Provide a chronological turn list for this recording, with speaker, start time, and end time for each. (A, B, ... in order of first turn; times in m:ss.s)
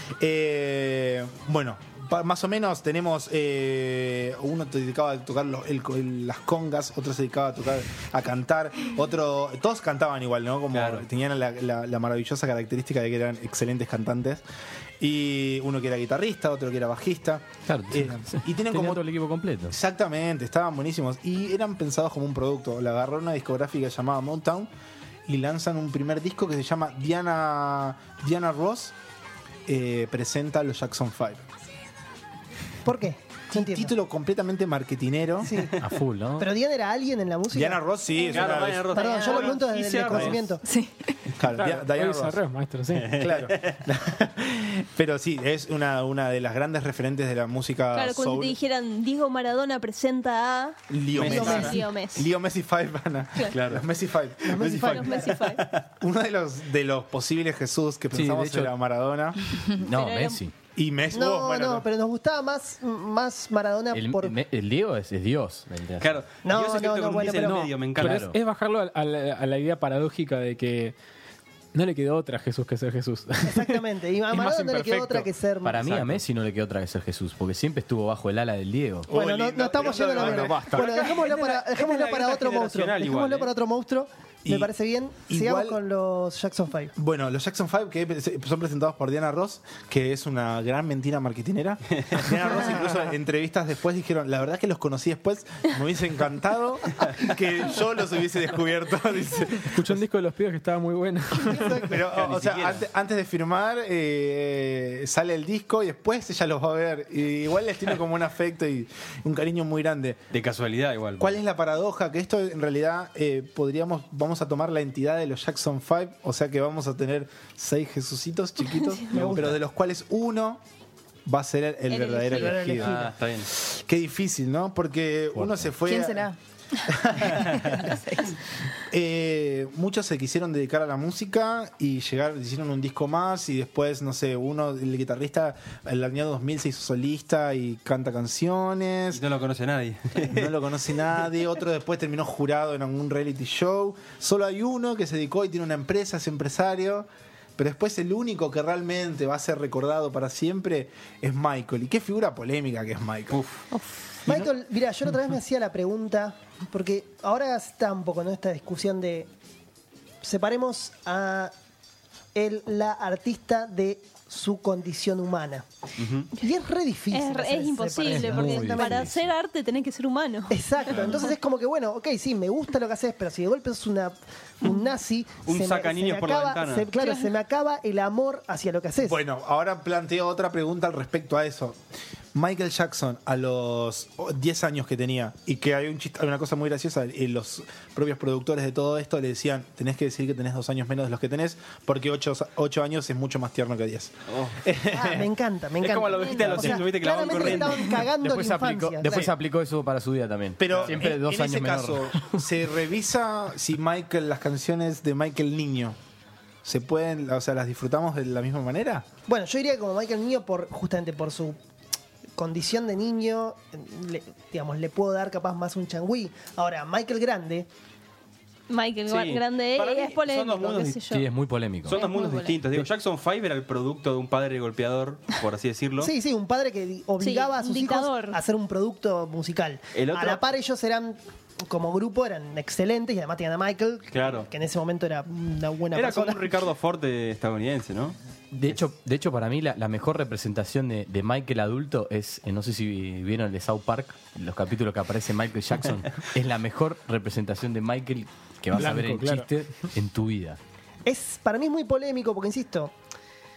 0:00.2-0:14.4 A
0:10.7-0:11.0 B
0:15.0-0:19.1 A
0:17.7-0:19.8 C
0:19.7-0:24.7 A
0:25.3-0:28.9 A
0:29.6-0:31.4 A
0:32.8-0:33.9 D
0:33.5-0:35.7 A
0:35.4-0:35.8 D
0:35.8-0:36.5 C
0:36.4-0:40.6 D
0:37.5-0:39.0 A
0:38.3-0:40.5 B
0:40.6-0:41.2 E
0:41.4-0:42.4 A
0:41.5-0:43.2 F
0:42.9-0:43.8 B
0:43.1-0:48.6 A
0:47.9-0:52.3 G
0:50.9-0:55.3 A
0:51.2-0:51.7 B
0:51.2-0:51.8 D
0:53.5-0:53.8 B
0:54.4-0:55.5 D
0:54.6-0:55.0 B
0:54.8-0:55.6 G
0:55.9-0:59.4 A
0:58.1-0:58.7 C
0:59.8-1:00.5 C
0:59.8-1:00.4 G
1:00.7-1:01.8 A
1:01.1-1:04.4 D
1:03.9-1:06.2 C
1:06.0-1:08.3 B
1:06.4-1:07.7 D
1:08.0-1:10.9 F
1:08.0-1:08.4 C
1:11.7-1:15.3 F
1:13.4-1:16.1 D
1:15.6-1:19.1 C
1:19.1-1:21.0 A
1:19.1-1:26.9 D
1:19.7-1:23.5 B
1:20.4-1:20.8 F
1:24.4-1:24.7 A
1:25.2-1:25.8 A
1:27.0-1:40.0 A
1:39.7-1:41.9 F
1:41.8-1:50.2 A
1:42.1-1:42.8 B
1:50.3-1:51.4 B
1:51.2-2:00.6 A
1:59.2-1:59.4 D
2:01.2-2:03.0 A
2:01.9-2:02.7 G
2:02.3-2:03.1 D
2:02.7-2:03.1 C
2:02.9-2:03.5 B
2:03.5-2:06.3 A
2:05.3-2:05.7 C
2:05.8-2:06.4 E
2:06.9-2:07.8 A
2:07.3-2:08.3 E
2:08.9-2:19.2 A
2:19.1-2:20.6 B
2:20.2-2:33.4 A
2:33.3-2:33.6 B
2:33.7-2:34.0 G
2:34.2-2:39.3 D
2:40.2-2:41.5 D
2:42.3-2:45.6 D
2:46.0-2:46.3 B
2:46.4-2:49.1 D
2:47.1-2:50.6 G
2:48.0-2:49.2 C
2:50.5-2:59.2 D
2:55.4-2:56.9 B
2:57.0-2:57.3 G
2:59.0-3:01.8 A
3:02.3-3:15.3 A
3:14.3-3:14.6 B
3:14.9-3:19.3 D
3:15.8-3:18.0 B
3:16.1-3:16.6 G
3:18.1-3:22.4 C
3:20.6-3:26.0 A
3:20.7-3:21.0 B
3:26.6-3:29.1 A
3:29.3-3:31.6 D
3:32.4-3:37.7 D
3:38.7-3:41.3 G
3:39.1-3:41.0 B
3:41.1-3:42.0 C
3:41.8-3:46.1 B
3:41.9-3:42.6 G
3:46.0-3:56.5 D
3:47.2-3:48.4 G
3:49.9-3:50.4 B
3:54.1-3:54.5 B
3:55.9-3:58.2 B
3:58.5-4:10.6 C
4:08.7-4:09.5 F
4:11.0-4:12.9 D